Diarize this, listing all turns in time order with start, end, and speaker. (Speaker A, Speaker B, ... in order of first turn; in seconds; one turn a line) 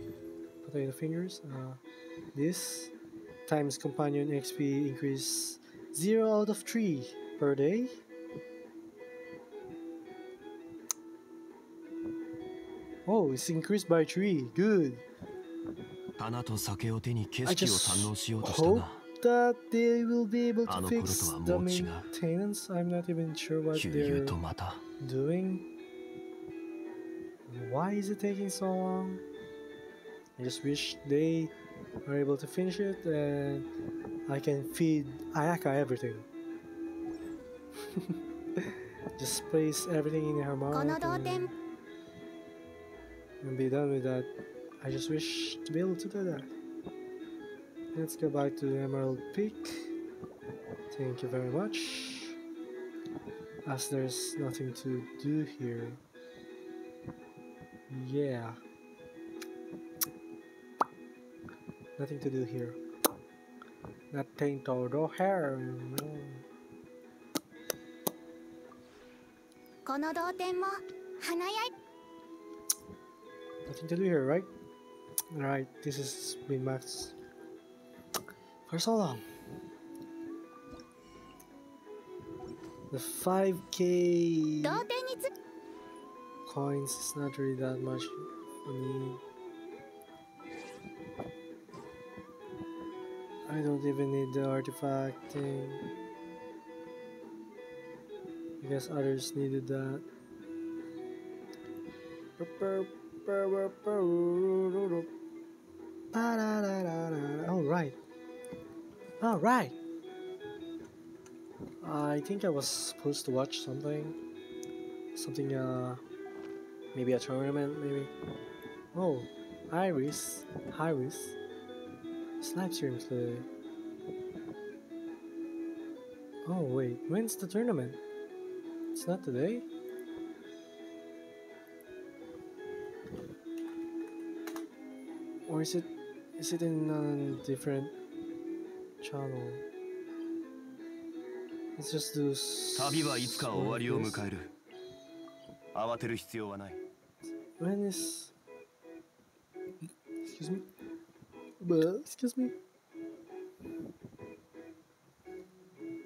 Speaker A: 0.6-1.8
Speaker A: 2.3-2.9
Speaker A: 3.5-8.0
Speaker A: 13.1-15.0
Speaker B: 16.2-19.0
Speaker A: 17.4-24.4
Speaker B: 20.7-22.1
Speaker B: 23.7-24.8
Speaker A: 25.0-25.6
Speaker A: 27.5-29.2
Speaker A: 30.4-31.5
Speaker A: 32.0-33.7
Speaker A: 34.3-36.3
Speaker A: 37.9-41.5
Speaker C: 40.7-41.5
Speaker A: 43.4-44.3
Speaker A: 44.8-46.5
Speaker A: 47.9-49.9
Speaker A: 50.9-52.4
Speaker A: 53.6-56.0
Speaker A: 57.9-58.6
Speaker A: 62.0-62.8
Speaker A: 64.1-66.4
Speaker C: 69.8-71.7
Speaker A: 73.7-74.5
Speaker A: 75.3-77.1
Speaker A: 78.7-79.2
Speaker A: 82.9-84.8
Speaker C: 84.6-85.3
Speaker A: 86.5-89.2
Speaker A: 93.5-95.8
Speaker A: 98.6-100.0
Speaker A: 102.4-105.1
Speaker A: 106.1-108.0
Speaker A: 109.2-109.8
Speaker A: 111.8-114.2
Speaker A: 115.1-116.0
Speaker A: 116.9-118.1
Speaker A: 118.9-121.4
Speaker A: 122.4-123.5
Speaker A: 126.5-128.0
Speaker A: 128.9-129.7
Speaker A: 135.4-137.9
Speaker A: 139.0-139.6
Speaker A: 141.8-144.2
Speaker B: 142.8-144.5
Speaker B: 145.7-146.8
Speaker A: 147.6-148.3
Speaker A: 150.2-150.7
Speaker A: 151.6-152.5